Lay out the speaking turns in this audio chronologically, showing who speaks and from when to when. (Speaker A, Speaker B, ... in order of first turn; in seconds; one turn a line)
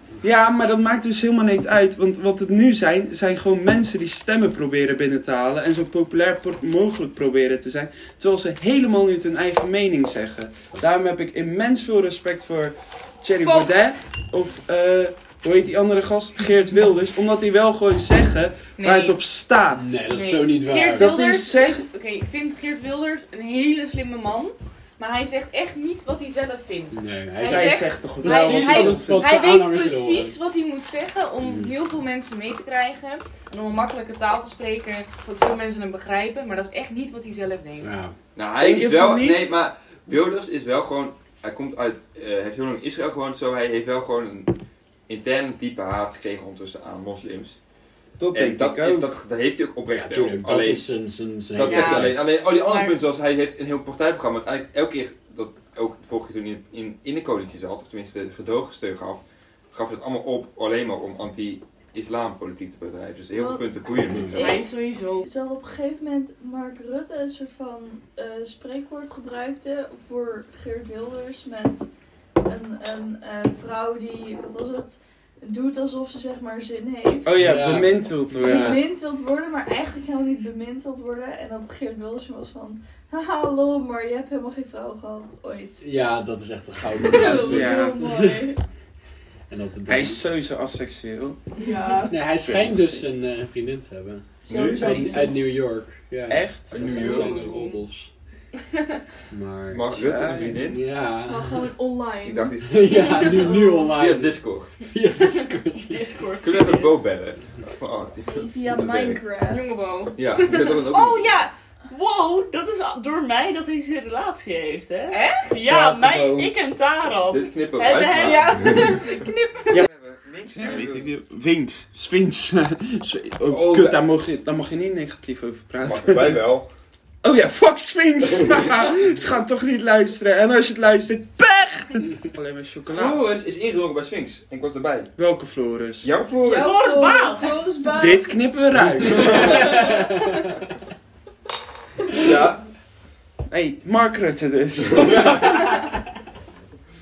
Speaker A: 0.2-20.1
Speaker B: 13.4-13.7
Speaker B: 18.8-19.2
Speaker C: 19.7-21.3
Speaker B: 20.1-37.9
Speaker A: 20.9-21.9
Speaker C: 26.9-30.4
Speaker A: 27.4-29.3
Speaker C: 31.4-31.7
Speaker C: 37.8-38.1
Speaker D: 38.4-44.6
Speaker A: 38.6-39.5
Speaker D: 45.1-47.6
Speaker A: 48.2-49.1
Speaker D: 48.3-50.9
Speaker C: 49.9-52.3
Speaker D: 51.5-64.5
Speaker B: 51.6-53.0
Speaker E: 63.3-63.7
Speaker C: 64.0-64.5
Speaker E: 64.3-71.9
Speaker B: 64.3-65.3
Speaker E: 72.5-77.8
Speaker A: 77.2-78.8
Speaker C: 77.3-78.9
Speaker E: 78.4-85.8
Speaker C: 85.8-88.5
Speaker E: 87.0-88.6
Speaker A: 87.4-88.0
Speaker C: 89.5-90.2
Speaker A: 89.9-91.4
Speaker E: 91.6-92.3
Speaker C: 92.1-98.1
Speaker A: 92.5-93.0
Speaker E: 94.5-95.6
Speaker D: 94.5-94.9
Speaker A: 94.7-95.2
Speaker A: 96.3-97.1
Speaker D: 96.7-97.7
Speaker E: 96.8-97.8
Speaker C: 99.3-100.0
Speaker D: 99.7-100.8
Speaker A: 99.9-100.6
Speaker C: 100.5-101.7
Speaker E: 101.2-102.5
Speaker D: 102.2-104.7
Speaker C: 102.6-106.0
Speaker B: 103.0-103.9
Speaker E: 103.2-103.9
Speaker F: 105.9-107.0
Speaker D: 106.4-109.3
Speaker E: 108.3-110.0
Speaker B: 109.3-111.0
Speaker D: 110.2-111.3
Speaker F: 110.9-118.8
Speaker B: 115.1-115.6
Speaker A: 115.7-116.5
Speaker D: 117.3-118.9
Speaker E: 118.2-119.5
Speaker B: 118.4-119.8
Speaker D: 119.7-121.1
Speaker A: 120.6-126.5
Speaker D: 123.5-124.0
Speaker D: 125.8-126.7
Speaker A: 127.2-133.2
Speaker D: 132.9-135.1
Speaker A: 135.2-136.1
Speaker D: 136.0-136.9
Speaker E: 136.4-138.4
Speaker F: 136.5-137.7
Speaker A: 137.9-140.0
Speaker C: 138.7-140.4
Speaker E: 139.3-140.1
Speaker D: 142.1-142.6
Speaker A: 143.5-145.8